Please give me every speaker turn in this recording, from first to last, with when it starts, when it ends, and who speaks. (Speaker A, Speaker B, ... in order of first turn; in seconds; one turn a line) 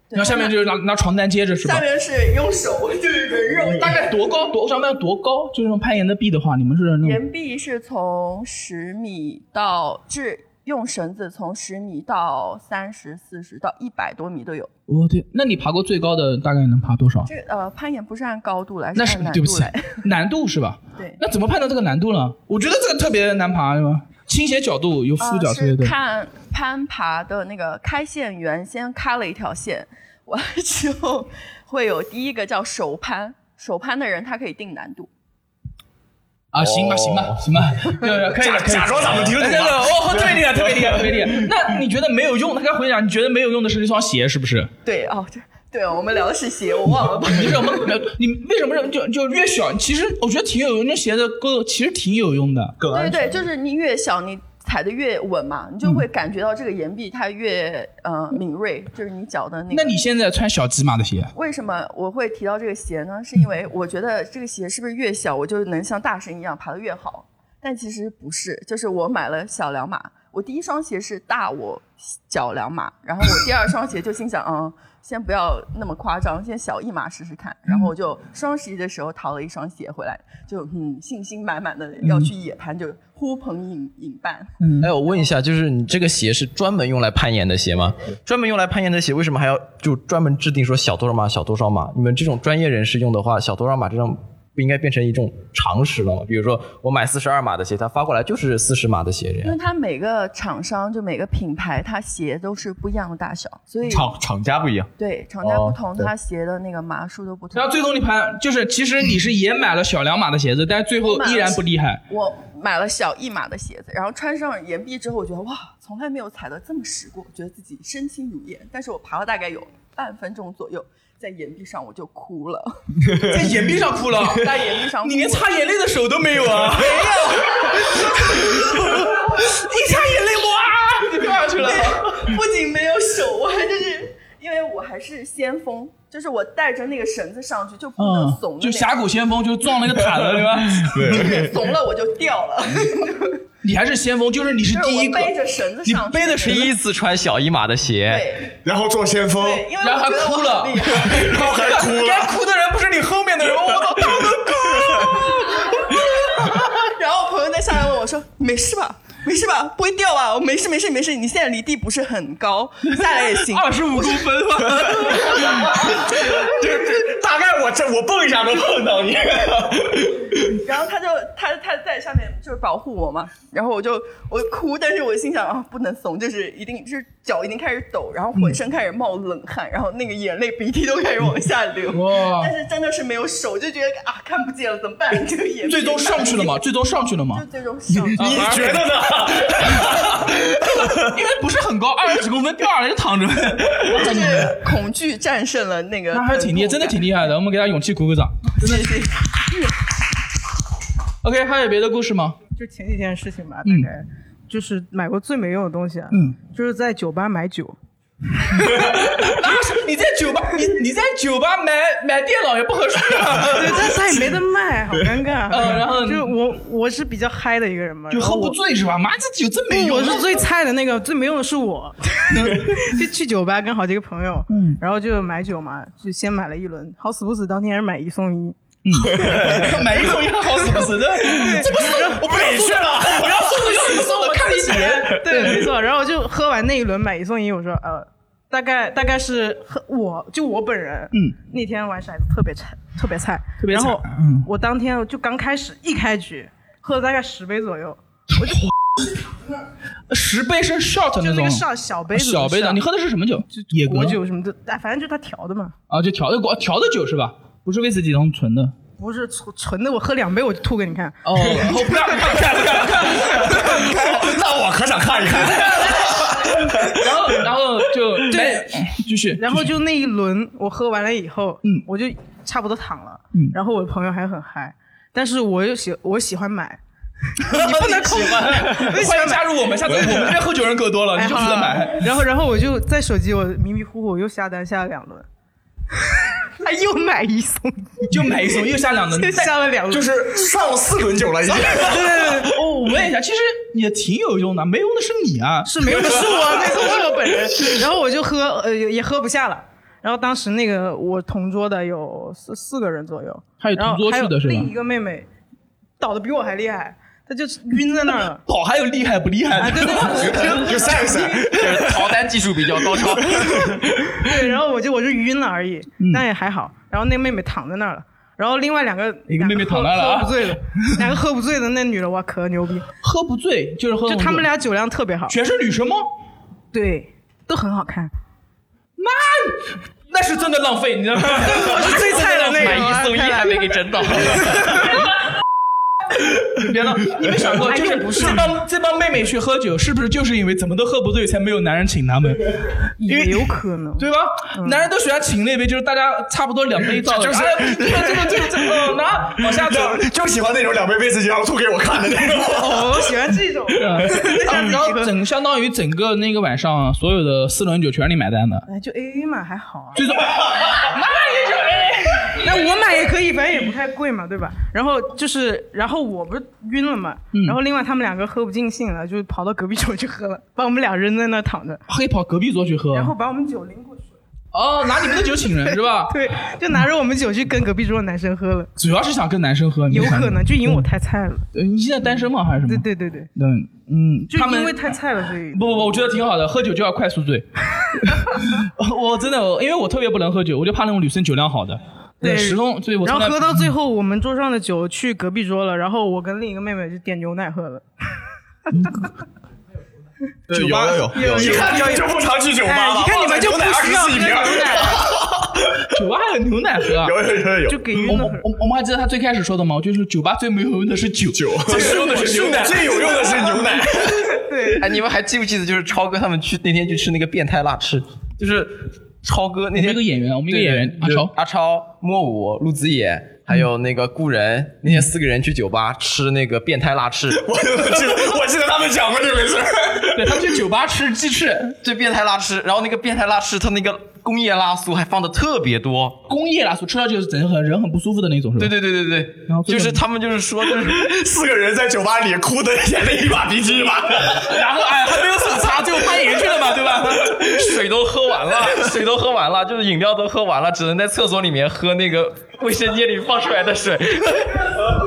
Speaker A: 0.1-0.6
Speaker B: 0.1-1.8
Speaker A: 1.6-4.2
Speaker B: 3.8-7.2
Speaker A: 7.0-14.7
Speaker B: 14.9-17.3
Speaker A: 17.2-20.1
Speaker B: 18.9-25.9
Speaker A: 25.2-35.1
Speaker B: 36.5-44.7
Speaker C: 36.6-37.4
Speaker D: 38.0-41.5
Speaker A: 44.8-47.9
Speaker B: 47.3-52.8
Speaker D: 52.8-53.4
Speaker A: 52.9-60.0
Speaker B: 59.7-61.3
Speaker A: 61.3-84.6
Speaker B: 82.0-82.3
Speaker B: 84.6-84.9
Speaker C: 84.8-99.6
Speaker A: 99.4-104.1
Speaker D: 103.8-104.9
Speaker A: 105.0-107.8
Speaker D: 105.4-106.1
Speaker B: 107.5-112.0
Speaker A: 111.0-125.5
Speaker D: 123.0-123.6
Speaker B: 123.3-124.5
Speaker B: 125.0-132.3
Speaker A: 126.6-128.6
Speaker A: 129.7-130.1
Speaker A: 131.3-139.0
Speaker B: 138.0-141.3
Speaker D: 139.9-141.8
Speaker A: 141.0-143.4
Speaker B: 143.6-146.7
Speaker A: 144.7-146.7
Speaker C: 146.4-148.3
Speaker A: 148.1-148.6
Speaker D: 148.6-149.7
Speaker A: 149.4-151.9
Speaker B: 149.8-156.8
Speaker D: 151.0-152.4
Speaker A: 155.6-165.7
Speaker B: 162.8-165.7
Speaker D: 165.0-170.6
Speaker A: 170.5-186.6
Speaker B: 181.9-182.5
Speaker B: 185.7-187.4
Speaker A: 187.3-188.7
Speaker D: 188.0-191.1
Speaker B: 188.1-188.9
Speaker B: 189.7-190.3
Speaker B: 190.9-194.7
Speaker A: 193.8-197.1
Speaker B: 196.1-199.1
Speaker A: 198.6-199.7
Speaker B: 201.2-202.4
Speaker E: 202.6-207.8
Speaker B: 203.6-203.9
Speaker B: 206.1-206.4
Speaker B: 208.5-214.0
Speaker E: 213.5-218.6
Speaker B: 215.5-216.3
Speaker B: 218.1-220.3
Speaker E: 219.7-228.6
Speaker B: 222.3-223.0
Speaker B: 224.5-224.8
Speaker B: 228.8-235.6
Speaker D: 229.1-230.1
Speaker D: 230.8-235.6
Speaker E: 231.3-232.2
Speaker E: 234.0-248.6
Speaker B: 241.1-241.4
Speaker B: 243.6-244.5
Speaker B: 248.4-248.7
Speaker B: 250.1-254.2
Speaker E: 251.2-252.8
Speaker E: 253.5-255.8
Speaker B: 255.9-258.8
Speaker E: 259.0-261.6
Speaker B: 261.2-263.9
Speaker D: 262.5-267.4
Speaker B: 265.3-266.3
Speaker B: 266.9-269.7
Speaker E: 268.3-276.8
Speaker B: 277.4-282.1
Speaker E: 277.4-280.3
Speaker C: 277.6-278.6
Speaker E: 281.1-285.3
Speaker E: 286.1-288.3
Speaker B: 288.1-289.5
Speaker E: 289.1-290.3
Speaker D: 289.9-292.3
Speaker B: 291.6-296.8
Speaker E: 291.7-292.5
Speaker E: 295.6-305.3
Speaker B: 303.6-304.7
Speaker E: 306.0-308.4
Speaker B: 308.4-311.0
Speaker E: 309.6-311.5
Speaker D: 310.2-312.1
Speaker C: 311.5-313.8
Speaker E: 314.1-322.9
Speaker B: 316.0-316.2
Speaker B: 319.3-321.1
Speaker B: 323.0-324.5
Speaker E: 324.1-325.4
Speaker B: 325.3-326.1
Speaker E: 326.7-328.1
Speaker B: 329.0-333.0
Speaker E: 331.5-334.9
Speaker C: 332.3-334.9
Speaker B: 336.4-350.1
Speaker E: 337.6-338.5
Speaker E: 343.0-344.9
Speaker D: 347.1-348.5
Speaker D: 349.4-353.3
Speaker E: 352.5-355.1
Speaker B: 353.8-358.7
Speaker E: 358.7-360.1
Speaker B: 359.9-362.5
Speaker E: 362.4-371.8
Speaker B: 367.3-367.6
Speaker B: 371.9-373.1
Speaker E: 372.9-374.1
Speaker B: 374.5-376.2
Speaker E: 375.1-378.7
Speaker B: 378.8-380.9
Speaker E: 379.9-381.4
Speaker B: 381.5-393.7
Speaker E: 382.6-383.3
Speaker E: 384.3-385.8
Speaker E: 392.2-397.9
Speaker B: 398.7-399.1
Speaker D: 400.5-405.9
Speaker B: 400.5-401.9
Speaker E: 401.1-405.1
Speaker B: 405.9-407.1
Speaker D: 407.0-408.1
Speaker E: 407.7-408.4
Speaker B: 408.0-413.1
Speaker D: 411.3-414.5
Speaker E: 411.7-413.6
Speaker E: 414.4-414.9
Speaker C: 414.8-427.4
Speaker B: 419.7-421.3
Speaker D: 427.3-430.5
Speaker B: 430.1-431.8
Speaker C: 431.8-436.2
Speaker B: 436.3-438.7
Speaker C: 438.6-441.1
Speaker B: 439.5-440.0
Speaker D: 440.8-444.5
Speaker B: 444.4-447.4
Speaker C: 447.2-454.8